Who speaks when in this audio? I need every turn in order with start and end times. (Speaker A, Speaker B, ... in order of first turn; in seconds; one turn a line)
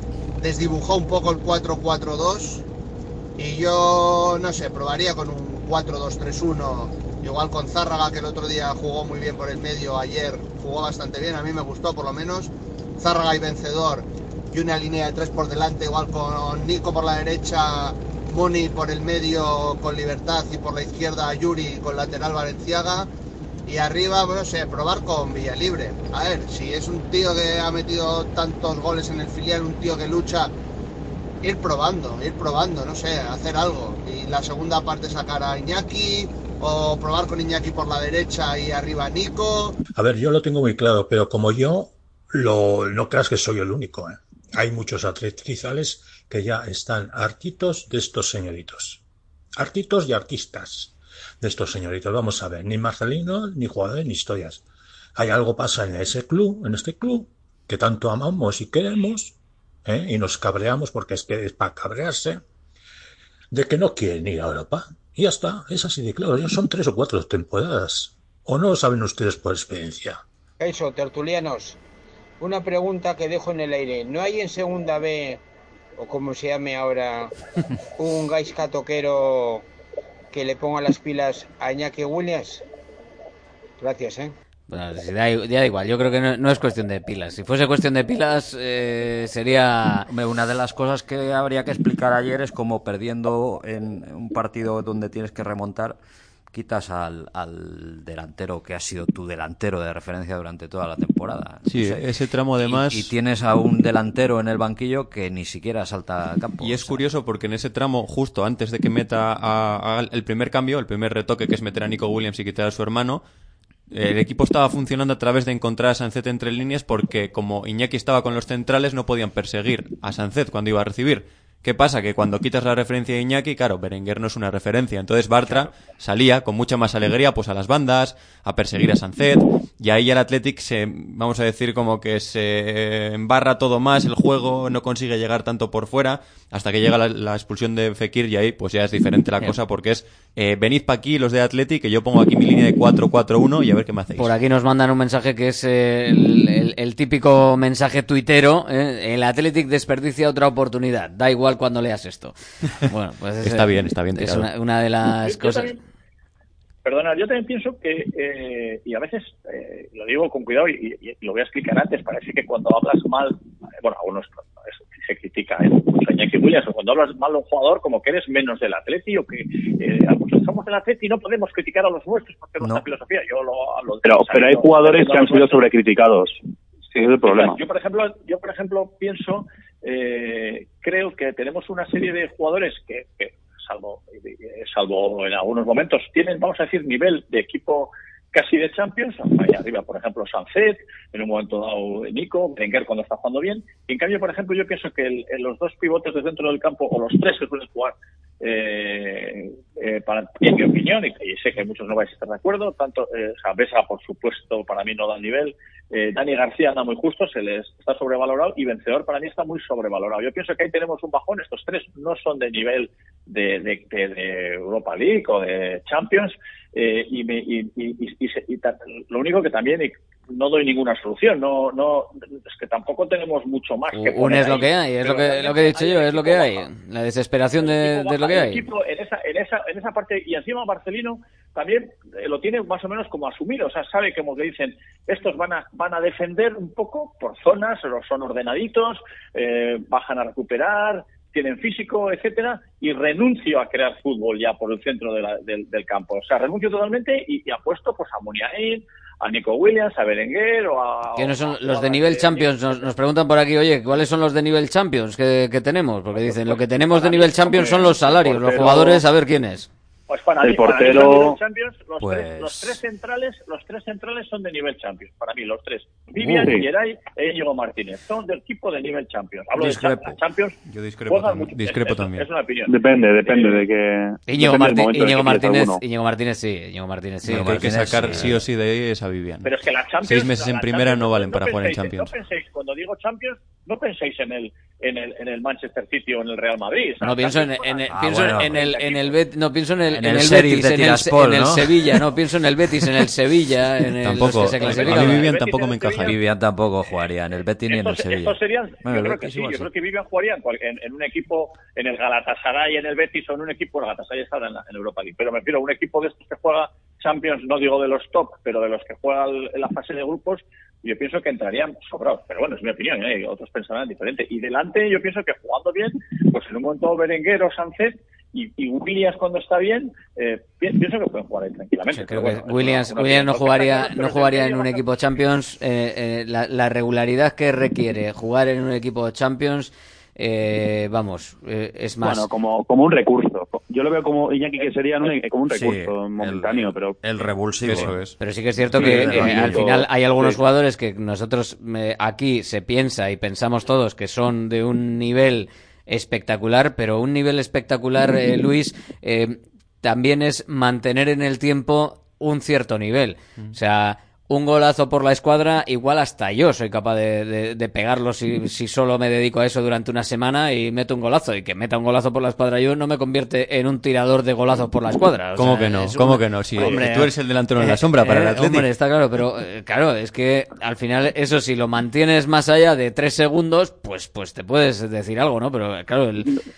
Speaker A: 0.4-2.6
Speaker A: 3.4-23.1
Speaker A: 23.7-30.5
Speaker A: 31.4-39.8
Speaker B: 40.0-49.0
Speaker B: 49.6-54.6
Speaker B: 55.2-62.4
Speaker B: 63.5-70.2
Speaker C: 70.6-71.8
Speaker C: 72.4-75.4
Speaker C: 76.0-77.3
Speaker C: 78.0-79.7
Speaker C: 80.3-82.6
Speaker C: 83.8-84.3
Speaker D: 84.7-90.1
Speaker E: 90.1-96.0
Speaker E: 96.5-107.0
Speaker F: 101.7-103.1
Speaker F: 106.6-113.2
Speaker F: 113.9-144.3
Speaker D: 144.2-155.8
Speaker F: 153.4-154.5
Speaker G: 155.2-155.8
Speaker G: 156.8-175.7
Speaker H: 174.1-176.4
Speaker H: 176.9-177.6
Speaker G: 177.2-226.7
Speaker D: 223.9-228.7
Speaker G: 227.6-252.8
Speaker D: 251.2-259.7
Speaker G: 256.2-258.0
Speaker H: 258.1-259.0
Speaker G: 260.1-273.6
Speaker H: 260.4-261.4
Speaker E: 262.0-262.8
Speaker D: 266.2-266.7
Speaker E: 269.6-270.2
Speaker F: 270.6-272.3
Speaker H: 272.7-275.8
Speaker D: 274.3-277.7
Speaker E: 277.2-278.5
Speaker F: 277.4-279.5
Speaker G: 279.4-287.8
Speaker F: 280.0-282.1
Speaker D: 287.0-295.3
Speaker E: 287.9-288.6
Speaker G: 288.5-289.1
Speaker E: 289.9-292.0
Speaker F: 294.0-296.2
Speaker G: 294.6-296.1
Speaker E: 296.1-299.7
Speaker G: 297.7-324.8
Speaker D: 321.9-332.3
Speaker H: 332.0-337.0
Speaker E: 335.5-339.9
Speaker F: 337.6-338.2
Speaker D: 338.2-376.4
Speaker H: 338.8-340.4
Speaker F: 365.4-368.7